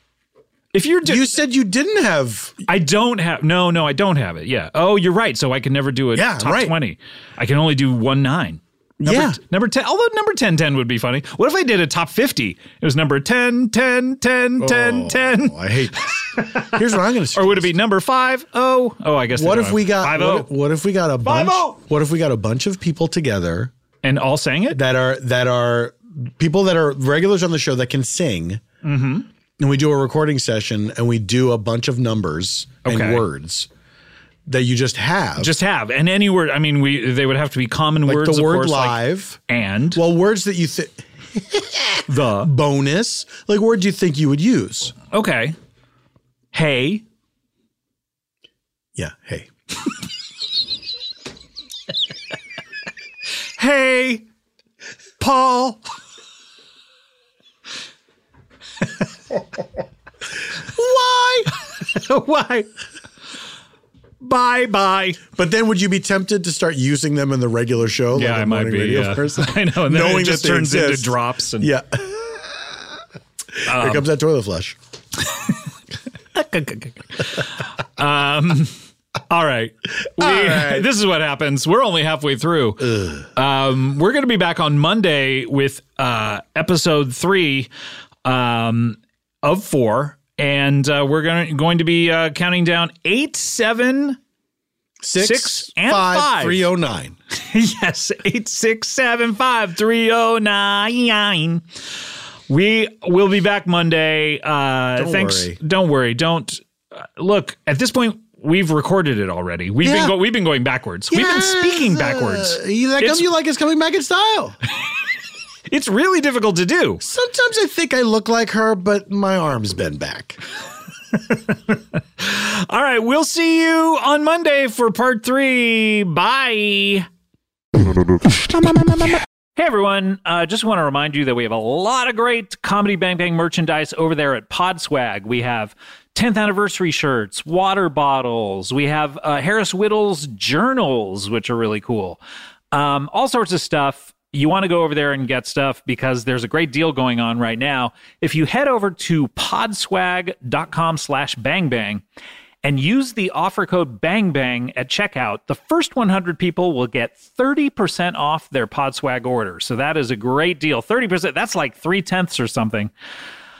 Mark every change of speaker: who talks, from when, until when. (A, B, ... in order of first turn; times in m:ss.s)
0:00.7-0:01.4 A
0:01.0-0:02.6 B
0:02.7-0:15.6 A
0:06.1-0:06.7 B
0:09.0-0:09.4 B
0:14.6-0:17.7 B
0:16.2-0:16.8 A
0:17.3-0:20.5 A
0:19.3-0:23.7 B
0:21.2-0:21.6 A
0:24.0-0:24.8 A
0:24.7-0:28.6 B
0:28.8-0:29.3 A
0:29.6-0:33.7 B
0:32.8-0:33.2 A
0:34.5-0:35.5 B
0:35.4-0:40.0 A
0:38.0-0:39.4 B
0:39.9-0:44.9 B
0:42.1-0:42.5 A
0:45.1-0:45.6 A
0:46.5-0:47.0 A
0:49.0-0:49.5 B
0:53.6-0:54.2 A
0:55.2-0:55.8 A
1:00.6-1:01.5 B
1:01.8-1:02.7 A
1:04.2-1:05.2 A
1:05.3-1:12.6 B
1:08.1-1:11.7 A
1:13.6-1:14.8 B
1:13.7-1:14.1 A
1:16.3-1:18.7 A
1:19.3-1:27.7 A
1:20.2-1:20.8 B
1:22.8-1:23.3 B
1:28.2-1:34.2 A
1:35.0-1:37.2 B
1:35.2-1:36.7 A
1:37.3-1:41.6 A
1:42.5-1:53.3 A
1:45.0-1:45.6 B
1:49.8-1:50.2 B
1:51.1-1:54.6 B
1:55.7-1:57.0 A
1:57.0-2:00.4 B
2:01.2-2:07.1 A
2:09.6-2:22.2 A
2:22.7-2:32.0 A
2:32.6-2:42.9 A